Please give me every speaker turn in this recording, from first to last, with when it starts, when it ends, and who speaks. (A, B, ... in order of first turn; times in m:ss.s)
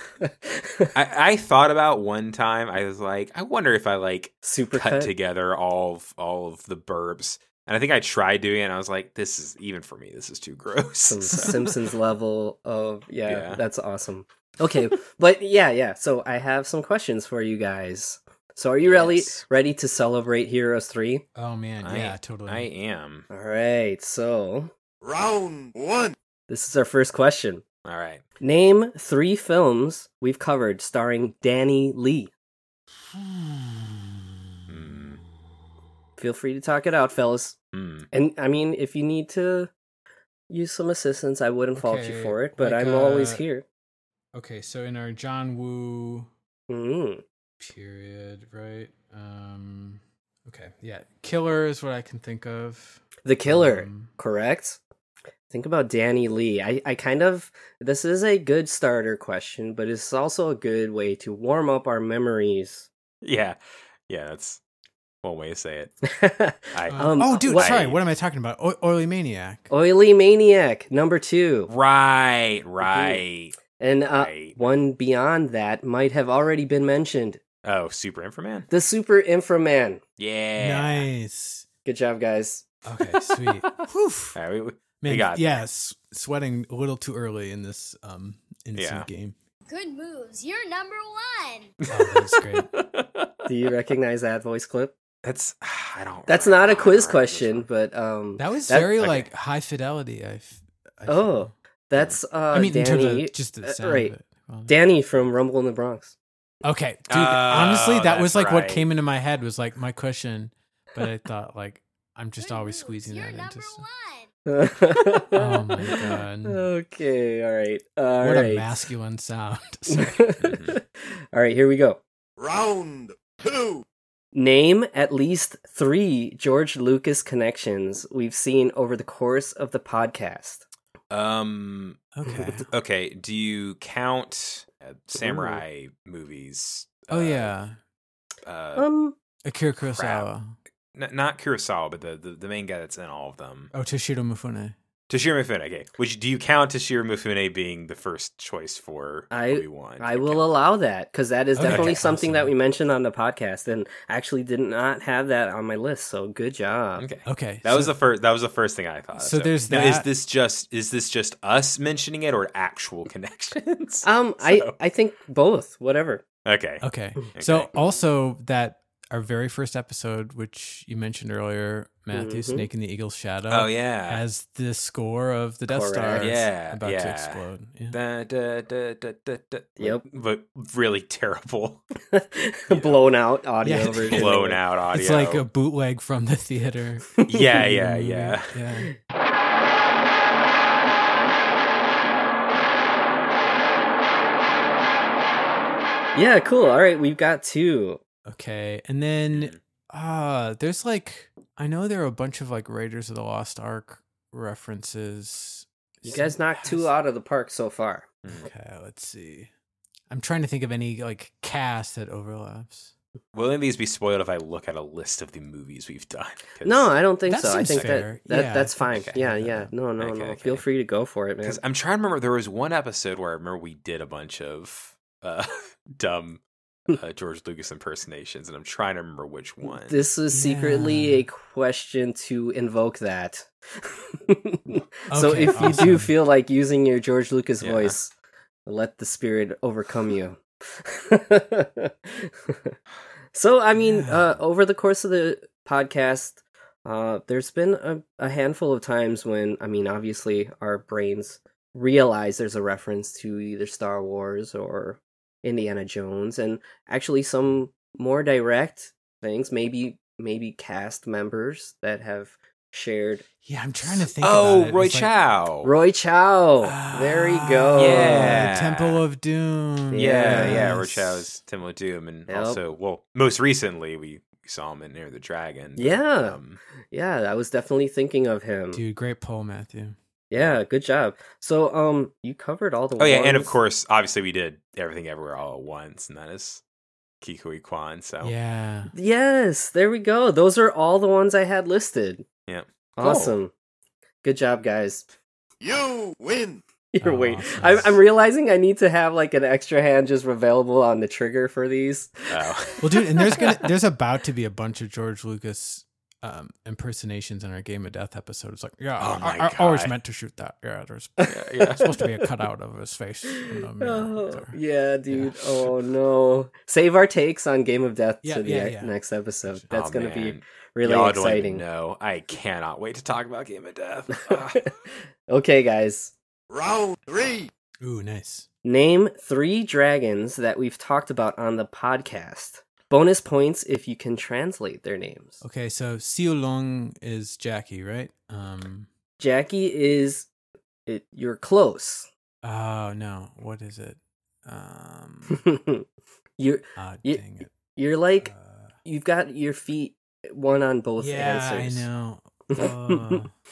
0:00.2-0:00.9 A
0:01.0-0:11.6 B
0:04.4-0:05.1 A
0:11.0-0:21.3 A
0:13.2-0:13.6 B
0:18.9-0:19.4 B
0:21.4-0:22.7 C
0:21.8-0:23.3 B
0:23.3-0:24.7 A
0:25.0-0:26.2 D
0:26.5-0:27.6 A
0:27.8-0:28.2 B
0:28.4-0:32.3 A
0:33.1-0:34.2 C
0:34.7-0:35.2 B
0:36.2-0:37.6 A
0:37.7-0:38.1 B
0:38.1-0:39.7 A
0:40.5-0:43.6 A
0:41.8-0:43.4 C
0:44.3-0:46.3 C
0:46.7-0:47.2 A
0:47.6-0:54.1 C
0:53.2-0:54.8 A
0:55.5-1:02.9 A
1:03.2-1:04.6 B
1:05.2-1:06.0 B
1:06.1-1:07.8 A
1:06.7-1:08.0 B
1:06.9-1:09.7 C
1:09.7-1:11.7 A
1:11.7-1:13.6 B
1:12.8-1:13.2 A
1:13.8-1:17.4 A
1:14.1-1:14.7 B
1:17.6-1:18.7 B
1:18.7-1:20.0 A
1:20.2-1:21.1 B
1:20.6-1:21.7 C
1:21.8-1:22.7 A
1:22.9-1:24.4 C
1:23.1-1:23.8 B
1:24.4-1:25.6 B
1:25.0-1:29.4 C
1:28.8-1:29.1 B
1:29.7-1:31.7 E
1:31.9-1:33.5 B
1:31.9-1:32.7 C
1:33.5-1:34.9 A
1:35.2-1:37.7 B
1:36.3-1:39.1 A
1:38.4-1:41.5 C
1:39.0-1:39.3 B
1:41.1-1:44.1 A
1:42.5-1:44.7 C
1:44.7-1:46.2 A
1:46.6-1:53.8 C
1:47.1-1:48.9 B
1:52.4-1:54.3 E
1:54.5-1:58.8 A
1:55.4-1:56.6 C
1:58.2-2:00.3 C
1:59.9-2:02.0 A
2:00.4-2:00.8 B
2:02.4-2:03.8 D
2:04.3-2:10.6 A
2:11.1-2:12.1 B
2:12.2-2:12.7 C
2:12.7-2:17.5 B
2:15.2-2:15.6 A
2:17.1-2:17.8 C
2:18.4-2:18.9 B
2:18.8-2:19.2 A
2:19.4-2:20.6 C
2:19.8-2:20.3 B
2:20.9-2:23.7 B
2:23.7-2:24.8 C
2:25.1-2:30.5 B
2:29.3-2:37.0 A
2:31.6-2:32.5 C
2:31.6-2:32.0 B
2:37.0-2:44.8 B
2:37.3-2:38.0 C
2:39.2-2:40.1 C
2:44.0-2:46.2 A
2:46.4-2:47.7 B
2:46.8-2:58.0 C
2:52.1-2:52.7 A
2:53.5-2:54.2 B
2:55.7-2:56.5 A
2:56.2-3:01.8 B
3:02.1-3:04.6 A
3:02.7-3:03.0 B
3:03.6-3:04.4 C
3:03.8-3:05.4 B
3:04.9-3:08.9 C
3:07.2-3:08.6 B
3:16.2-3:18.0 A
3:18.3-3:26.9 C
3:19.3-3:19.6 B
3:26.0-3:28.1 A
3:28.3-3:29.5 C
3:30.1-3:32.9 C
3:33.3-3:38.0 B
3:36.6-3:41.6 A
3:37.3-3:39.7 C
3:40.0-3:40.6 B
3:41.4-3:50.0 B
3:49.6-3:58.1 A
3:50.3-3:51.2 C
3:55.1-3:56.1 C
3:57.6-3:58.0 B
3:58.7-4:02.8 A
4:03.3-4:23.2 A
4:03.8-4:04.3 C
4:23.4-4:25.1 C
4:23.8-4:25.7 B
4:25.6-4:28.6 A
4:26.6-4:31.4 C
4:27.8-4:29.0 B
4:29.9-4:30.8 A
4:29.9-4:36.6 B
4:32.3-4:32.6 A
4:35.8-4:36.4 A
4:36.9-4:38.8 A
4:38.7-4:40.0 C
4:40.3-4:43.6 A
4:43.0-4:46.6 B
4:47.2-4:48.4 B
4:48.2-4:48.9 C
4:48.9-4:52.2 A
4:52.5-4:53.4 B
4:53.0-4:53.5 A
4:54.2-4:55.1 A
4:55.6-4:56.6 D
4:56.9-5:02.4 A
4:57.0-4:58.0 C
5:02.3-5:02.9 B
5:02.8-5:14.6 C
5:09.0-5:10.0 B
5:11.2-5:11.8 A
5:11.3-5:11.9 B
5:13.8-5:21.6 A
5:15.1-5:15.7 C
5:18.2-5:18.9 C
5:19.4-5:19.7 C
5:19.7-5:24.6 B
5:24.3-5:24.7 A
5:25.3-5:26.1 A
5:26.5-5:27.5 D
5:27.8-5:28.5 C
5:28.6-5:35.4 A
5:35.4-5:38.9 C
5:39.2-5:40.3 A
5:40.9-5:42.1 A
5:42.4-5:45.4 C
5:45.3-5:45.8 A
5:46.4-5:47.2 A
5:46.8-5:47.6 C
5:47.8-5:48.3 A
5:48.2-5:48.8 C
5:48.8-5:51.9 A
5:51.0-5:53.3 C
5:52.5-5:53.2 A